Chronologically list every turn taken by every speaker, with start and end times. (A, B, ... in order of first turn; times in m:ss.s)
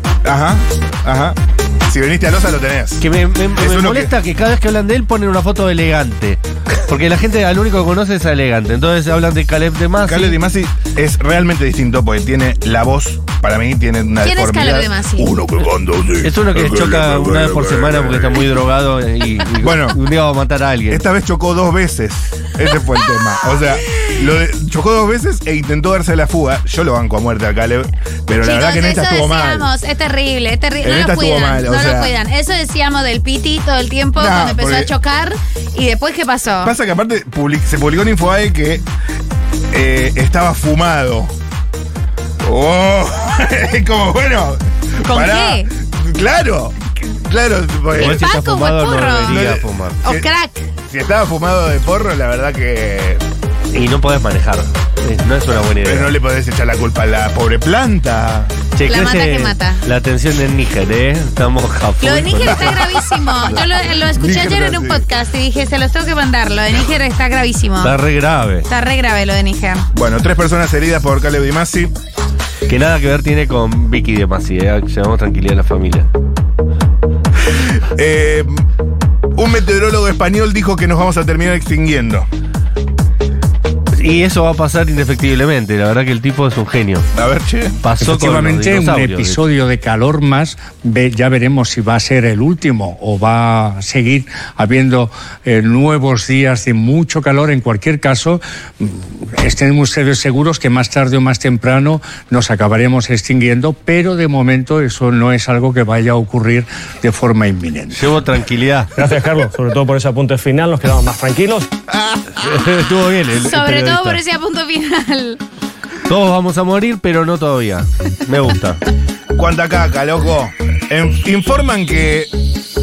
0:00.2-0:03.0 A
0:03.0-0:10.4 B
0:03.5-0:04.1 A
0:10.0-0:18.5 A
0:14.2-0:15.3 C
0:16.2-0:21.0 B
0:19.6-0:20.0 A
0:20.9-0:29.7 A
0:23.5-0:24.1 C
0:28.4-0:36.7 C
0:30.8-0:32.1 A
0:34.2-0:34.9 A
0:36.6-0:38.8 A
0:39.7-0:41.3 A
0:42.4-0:48.3 A
0:45.0-0:45.7 C
0:47.9-0:50.0 B
0:48.0-0:49.5 C
0:49.2-0:50.3 A
0:50.0-0:50.6 C
0:50.9-0:53.2 A
0:53.7-0:56.1 B
0:55.8-0:58.5 A
0:58.7-1:02.9 B
0:58.8-0:59.8 C
1:02.0-1:08.0 C
1:02.4-1:02.8 A
1:03.5-1:05.1 A
1:07.8-1:08.6 B
1:08.7-1:09.8 C
1:09.9-1:11.9 A
1:12.7-1:16.1 B
1:17.5-1:18.6 A
1:19.4-1:22.3 A
1:23.9-1:27.1 B
1:27.1-1:27.8 A
1:27.8-1:29.4 B
1:28.0-1:48.1 D
1:47.9-1:48.9 B
1:49.0-1:51.7 E
1:51.9-1:52.6 A
1:52.4-1:54.2 B
1:53.4-1:55.4 C
1:56.1-1:58.8 B
1:59.3-2:02.3 A